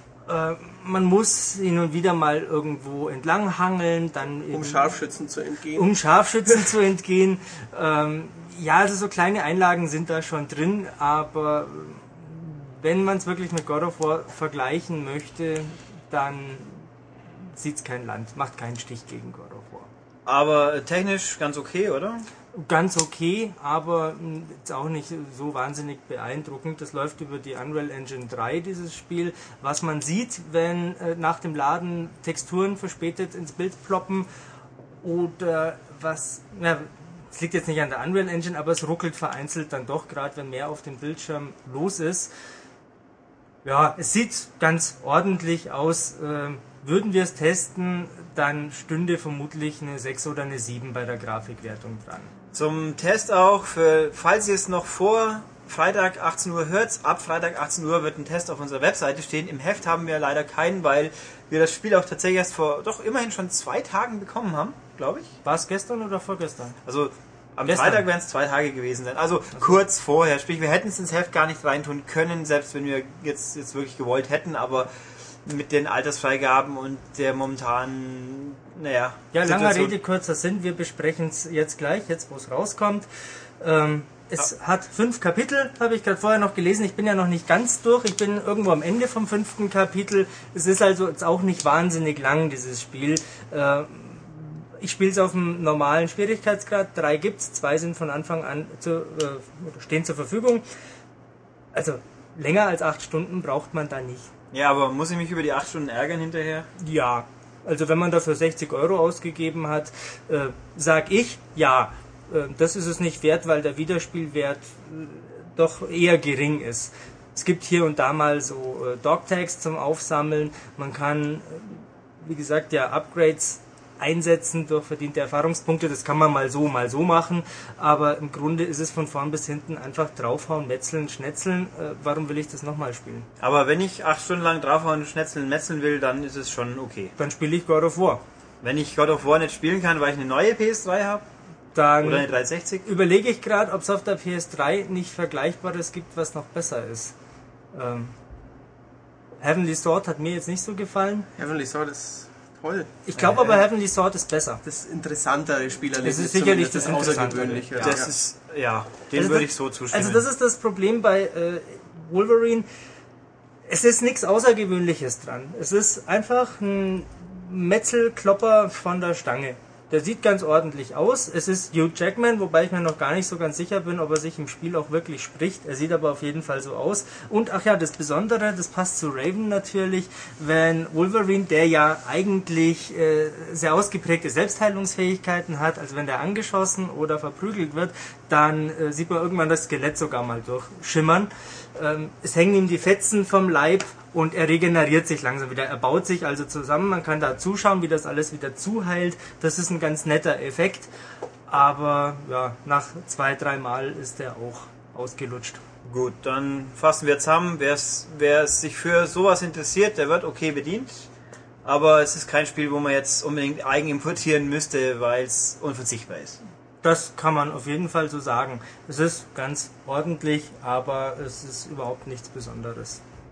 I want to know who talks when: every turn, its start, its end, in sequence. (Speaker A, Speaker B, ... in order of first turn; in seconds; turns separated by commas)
Speaker A: 0.2-5.0, Speaker B: 4.5-6.0, Speaker A: 5.7-16.9, Speaker A: 17.4-19.9, Speaker C: 20.2-22.3, Speaker A: 22.5-34.3, Speaker A: 35.0-42.3, Speaker A: 43.6-52.3, Speaker C: 52.5-65.3, Speaker A: 65.4-66.8, Speaker C: 66.8-74.9, Speaker A: 67.7-68.0, Speaker C: 75.4-80.0, Speaker A: 79.3-83.1, Speaker A: 83.6-100.6, Speaker A: 101.7-104.3, Speaker C: 104.5-106.7, Speaker A: 106.8-133.3, Speaker C: 133.4-137.1, Speaker A: 137.2-138.2, Speaker C: 138.6-141.2, Speaker A: 141.7-142.3, Speaker C: 142.0-142.9, Speaker A: 142.8-147.1, Speaker A: 147.7-148.1, Speaker A: 149.4-151.3, Speaker B: 151.4-153.1, Speaker A: 153.1-154.6, Speaker C: 153.2-153.6, Speaker B: 154.6-158.1, Speaker A: 156.0-158.0, Speaker C: 157.7-160.2, Speaker A: 159.1-162.7, Speaker A: 163.7-200.9, Speaker A: 201.5-205.6, Speaker C: 205.8-211.1, Speaker C: 211.6-216.4, Speaker A: 216.8-223.0